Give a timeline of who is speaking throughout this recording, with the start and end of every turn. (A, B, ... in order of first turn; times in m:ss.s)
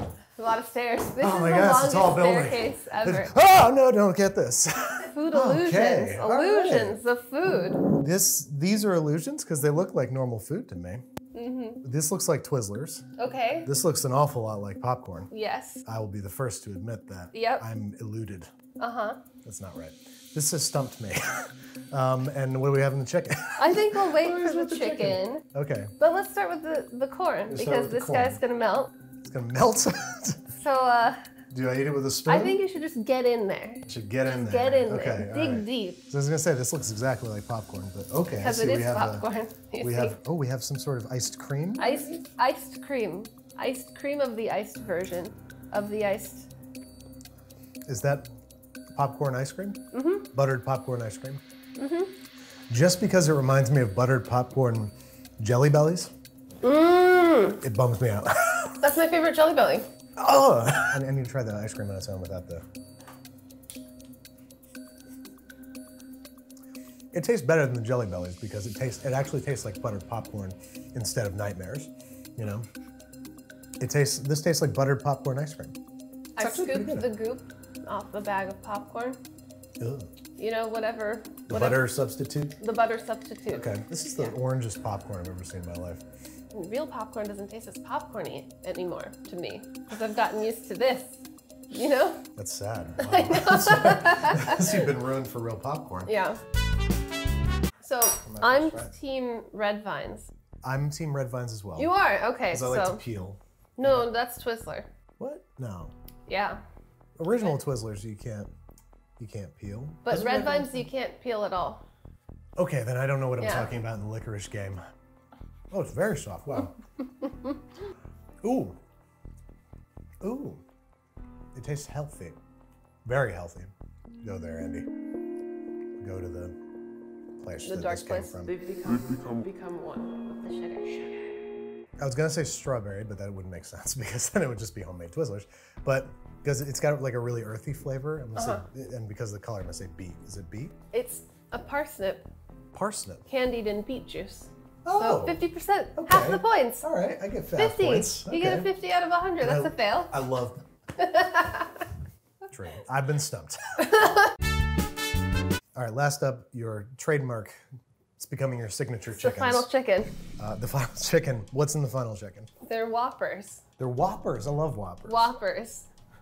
0:00.4-0:03.3 A
0:01.2-0:07.0 B
0:05.0-0:07.8 A
0:07.8-0:11.0 B
0:11.3-0:11.8 A
0:11.8-0:13.1 B
0:13.2-0:13.7 A
0:13.6-0:15.3 B
0:15.3-0:15.8 A
0:15.8-0:18.5 B
0:17.3-0:17.6 A
0:18.8-0:19.2 A
0:19.4-0:25.9 B
0:23.6-0:25.4 A
0:26.0-0:28.9 A
0:27.5-0:28.4 B
0:29.2-0:30.4 B
0:30.5-0:31.2 A
0:31.5-0:32.6 B
0:32.3-0:36.0 A
0:33.9-0:39.2 B
0:38.4-0:40.2 A
0:39.8-0:42.1 B
0:41.8-0:46.5 A
0:47.9-0:48.3 B
0:48.9-0:51.4 B
0:49.9-0:50.3 A
0:51.8-0:52.1 A
0:52.7-0:56.1 B
0:56.6-0:57.6 A
0:57.6-0:58.7 B
0:58.8-0:59.9 A
1:00.2-1:02.6 B
1:07.1-1:12.7 B
1:13.8-1:15.8 B
1:16.4-1:19.2 A
1:16.4-1:17.1 B
1:19.8-1:20.1 B
1:20.4-1:21.9 A
1:21.5-1:22.6 B
1:22.6-1:24.3 A
1:23.5-1:26.0 B
1:26.5-1:32.2 A
1:32.4-1:36.1 B
1:33.0-1:34.9 A
1:36.1-1:36.4 A
1:37.8-1:40.3 A
1:38.2-1:38.9 B
1:40.6-1:41.9 B
1:41.8-1:43.0 A
1:42.5-1:44.1 B
1:43.8-1:44.9 A
1:45.2-1:45.9 B
1:46.3-1:46.6 A
1:47.2-1:48.5 B
1:49.2-1:50.9 B
1:50.0-1:51.8 A
1:52.6-1:54.8 B
1:53.4-1:53.7 A
1:55.7-1:56.7 B
1:58.4-1:58.8 B
2:00.2-2:00.6 B
2:01.5-2:02.4 B
2:03.0-2:04.9 B
2:06.0-2:06.6 B
2:07.4-2:08.5 B
2:07.6-2:11.2 A
2:12.0-2:20.8 B
2:18.4-2:18.6 A
2:20.9-2:22.3 A
2:22.7-2:23.2 B
2:23.2-2:26.9 A
2:24.8-2:25.4 B
2:26.0-2:28.7 B
2:27.6-2:30.1 A
2:29.4-2:30.6 B
2:31.0-2:31.8 A
2:32.5-2:33.9 B
2:33.9-2:34.3 A
2:35.7-2:37.6 B
2:38.2-2:39.6 B
2:39.2-2:40.1 A
2:40.4-2:42.5 B
2:42.6-2:43.6 A
2:43.8-2:45.3 B
2:45.1-2:45.9 A